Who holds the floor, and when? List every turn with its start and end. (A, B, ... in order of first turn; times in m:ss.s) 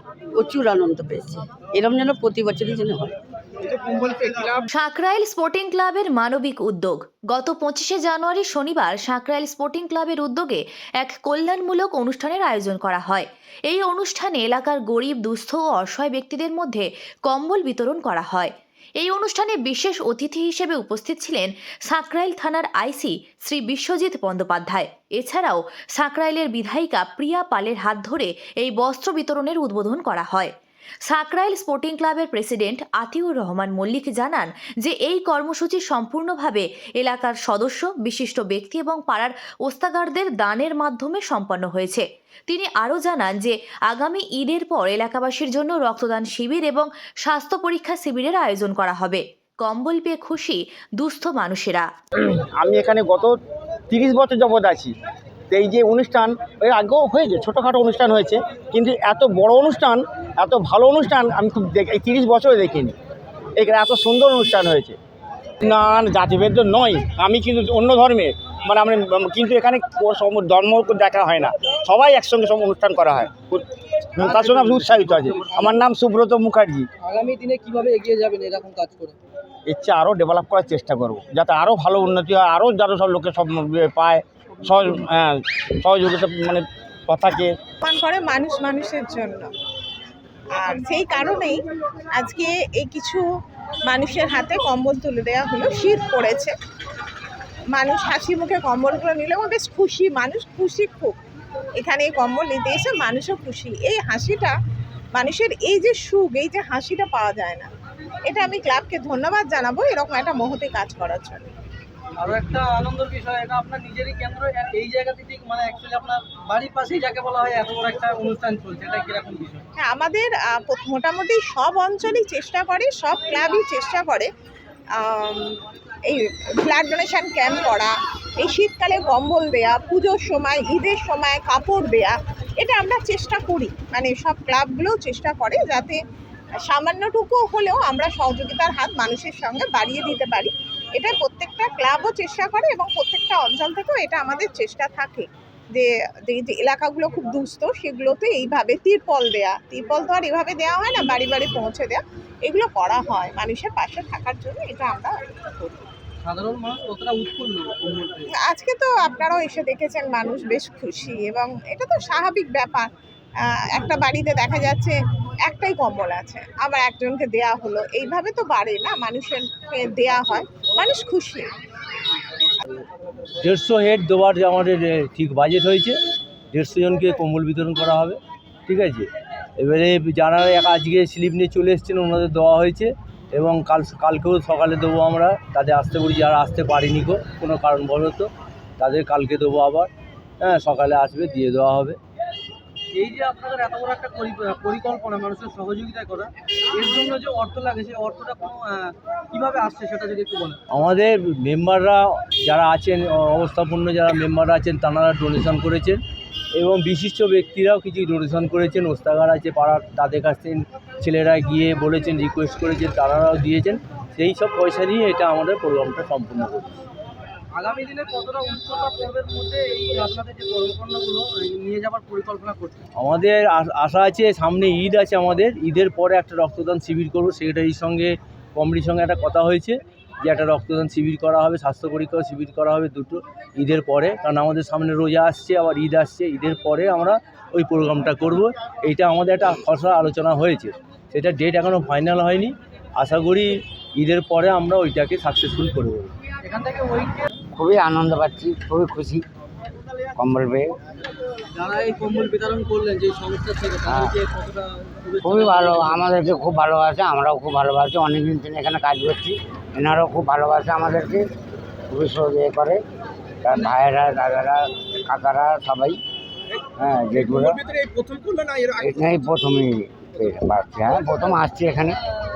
0:00.3-0:03.2 A
0:04.7-0:30.5 B
0:31.0-0:51.9 B
0:52.4-0:53.3 C
0:53.9-0:54.9 C
0:55.5-1:02.9 C
1:03.6-1:05.0 C
1:05.6-1:16.9 C
1:14.2-1:15.7 D
1:17.0-1:19.2 D
1:19.7-1:27.5 C
1:27.8-1:29.5 E
1:30.5-1:31.6 E
1:32.1-1:33.2 E
1:33.9-1:36.5 E
1:37.7-1:41.2 E
1:41.8-1:44.5 E
1:45.1-1:47.7 E
1:48.2-1:51.4 E
1:52.2-1:59.6 D
1:59.8-2:04.3 E
2:05.0-2:16.0 E
2:16.7-2:35.2 E
2:36.2-2:38.3 D
2:38.5-2:42.9 E
2:43.4-2:51.5 E
2:53.4-2:56.0 F
2:56.5-2:59.1 F
2:59.6-3:09.9 F
3:10.4-3:12.0 F
3:12.9-3:20.6 D
3:20.7-3:26.0 F
3:26.6-3:36.8 F
3:37.5-3:42.8 D
3:43.0-4:06.1 F
4:06.4-4:07.3 D
4:07.5-4:09.2 G
4:10.1-4:10.7 G
4:11.5-4:16.0 D
4:13.8-4:14.2 G
4:15.2-4:21.2 G
4:21.9-4:22.8 G
4:23.4-4:26.0 G
4:26.8-4:27.6 G
4:28.7-4:32.0 G